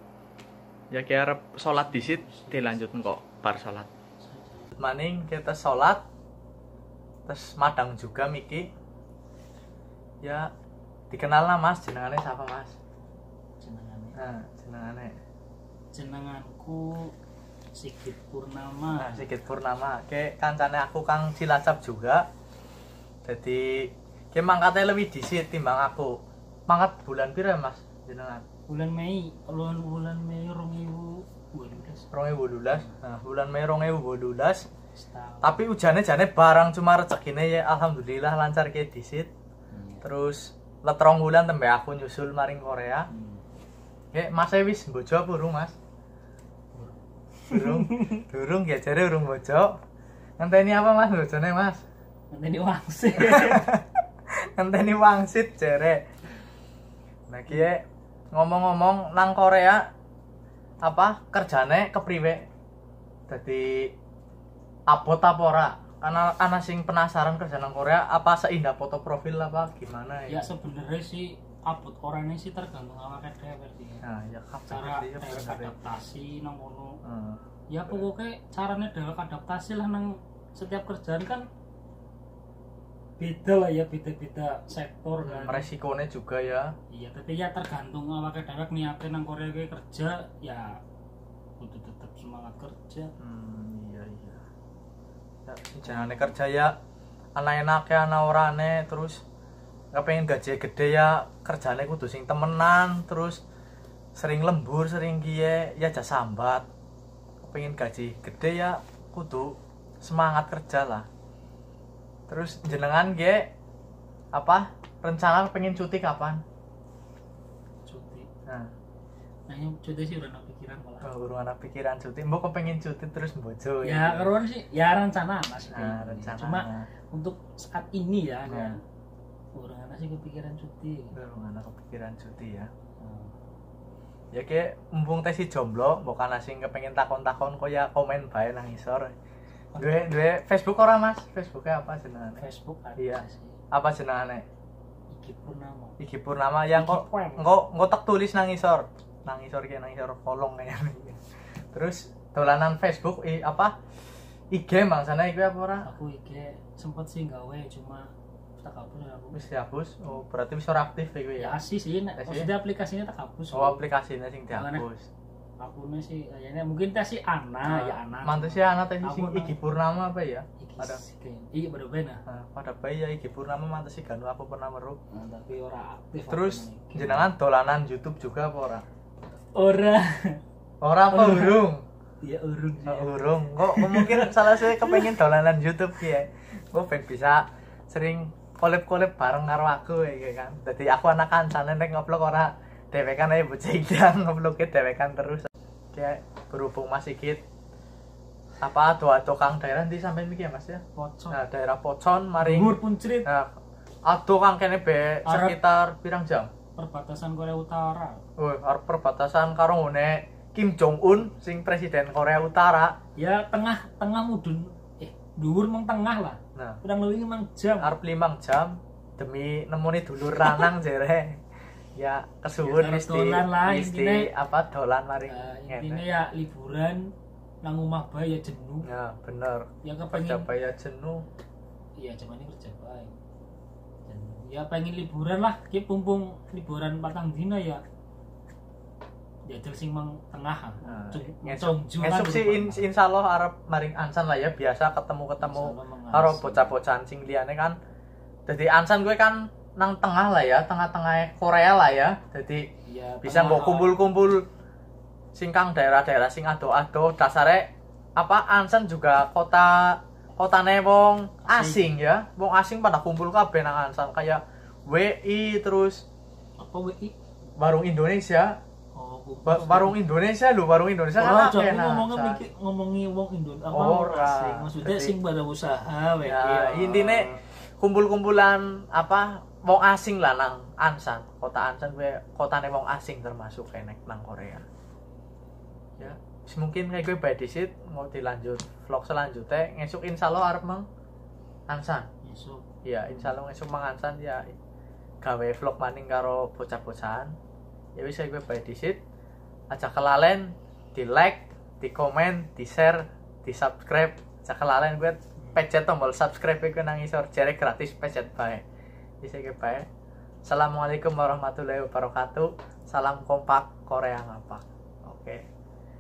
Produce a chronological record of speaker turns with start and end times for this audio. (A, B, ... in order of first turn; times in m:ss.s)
0:00.9-0:03.9 A
0:01.9-0:02.9 B
0:04.2-0:04.7 B
0:04.8-0:06.0 A
0:07.3-0:08.7 A
0:10.2-0:10.5 A
0:11.1-0:12.8 A
0:13.6-0:14.2 B
0:14.2-0:15.2 A
0:15.9-0:17.2 B
0:17.8-0:19.3 B
0:19.0-0:22.2 A
0:23.2-0:26.2 A
0:26.7-0:28.4 A
0:28.7-0:32.1 B
0:32.1-0:34.7 A
0:32.7-0:33.0 B
0:35.0-0:35.7 B
0:35.4-0:39.3 A
0:39.7-0:40.0 B
0:40.0-0:43.1 A
0:43.1-0:43.4 B
0:44.1-0:45.8 A
0:46.7-0:48.2 B
0:47.5-0:49.8 A
0:50.4-0:51.8 A
0:52.3-0:53.7 B
0:53.2-0:53.8 A
0:54.4-0:56.0 A
0:57.3-0:57.8 A
0:58.3-0:59.8 A
1:00.9-1:02.4 A
1:03.3-1:03.9 A
1:04.9-1:10.4 A
1:10.3-1:14.0 B
1:14.0-1:15.7 A
1:14.7-1:17.0 B
1:17.0-1:18.0 A
1:17.7-1:21.5 B
1:23.2-1:25.7 B
1:25.2-1:26.7 A
1:26.9-1:30.8 B
1:31.6-1:33.1 B
1:33.2-1:34.4 A
1:35.5-1:36.7 A
1:35.8-1:36.4 B
1:37.4-1:39.2 A
1:39.9-1:43.4 A
1:44.2-1:46.7 A
1:47.4-1:51.1 A
1:52.3-1:53.5 A
1:54.3-1:56.4 A
1:57.9-1:58.3 B
1:59.5-2:01.1 B
2:01.0-2:04.3 A
2:03.8-2:08.8 B
2:05.7-2:06.9 A
2:08.5-2:08.8 A
2:09.6-2:11.2 B
2:11.1-2:12.7 A
2:13.0-2:13.3 B
2:14.3-2:19.2 A
2:19.7-2:20.0 B
2:19.8-2:22.4 A
2:22.4-2:23.6 B
2:23.0-2:24.4 A
2:25.1-2:26.0 B
2:26.0-2:31.2 A
2:26.7-2:27.5 B
2:31.7-2:33.7 A
2:34.5-2:35.9 A
2:35.8-2:39.4 B
2:39.3-2:41.6 A
2:41.4-2:43.8 B
2:42.2-2:42.5 A
2:43.5-2:45.1 A
2:44.5-2:44.9 B
2:45.6-2:49.6 B
2:47.7-2:51.0 A
2:50.6-2:52.2 B
2:52.3-2:55.0 A
2:55.1-2:57.3 B
2:56.3-2:58.8 A
2:59.5-3:00.4 B
3:00.8-3:01.8 A
3:01.1-3:01.6 B
3:02.2-3:05.1 B
3:02.9-3:17.4 A
3:18.6-3:22.8 A
3:21.0-3:21.4 B
3:22.4-3:23.3 B
3:24.1-3:26.5 A
3:25.3-3:25.6 B
3:26.8-3:28.2 B
3:28.4-3:32.9 A
3:33.2-3:37.9 B
3:36.6-3:36.8 A
3:37.8-3:41.4 A
3:42.0-3:46.0 A
3:42.6-3:44.3 B
3:45.3-3:47.1 B
3:47.6-3:48.9 B
3:48.9-3:51.2 A
3:49.8-3:50.5 B
3:52.0-3:53.2 B
3:54.1-3:57.8 B
3:59.5-4:02.9 B
4:00.9-4:07.8 A
4:05.4-4:06.8 B
4:08.5-4:12.7 A
4:12.9-4:14.0 B
4:13.2-4:14.4 A
4:15.4-4:26.0 A
4:21.4-4:21.9 B
4:26.6-4:27.2 B
4:27.6-4:28.6 A
4:29.0-4:30.0 B
4:29.5-4:32.4 A
4:31.2-4:37.4 B
4:33.7-4:35.1 A
4:36.2-4:37.3 A
4:37.8-4:44.6 A
4:46.0-4:50.9 A
4:51.7-4:52.1 A
4:52.2-4:53.4 B
4:52.8-4:54.5 A
4:55.2-4:57.3 A
4:58.0-4:59.0 A
4:59.7-5:08.6 A
5:09.2-5:09.9 A
5:10.5-5:15.4 A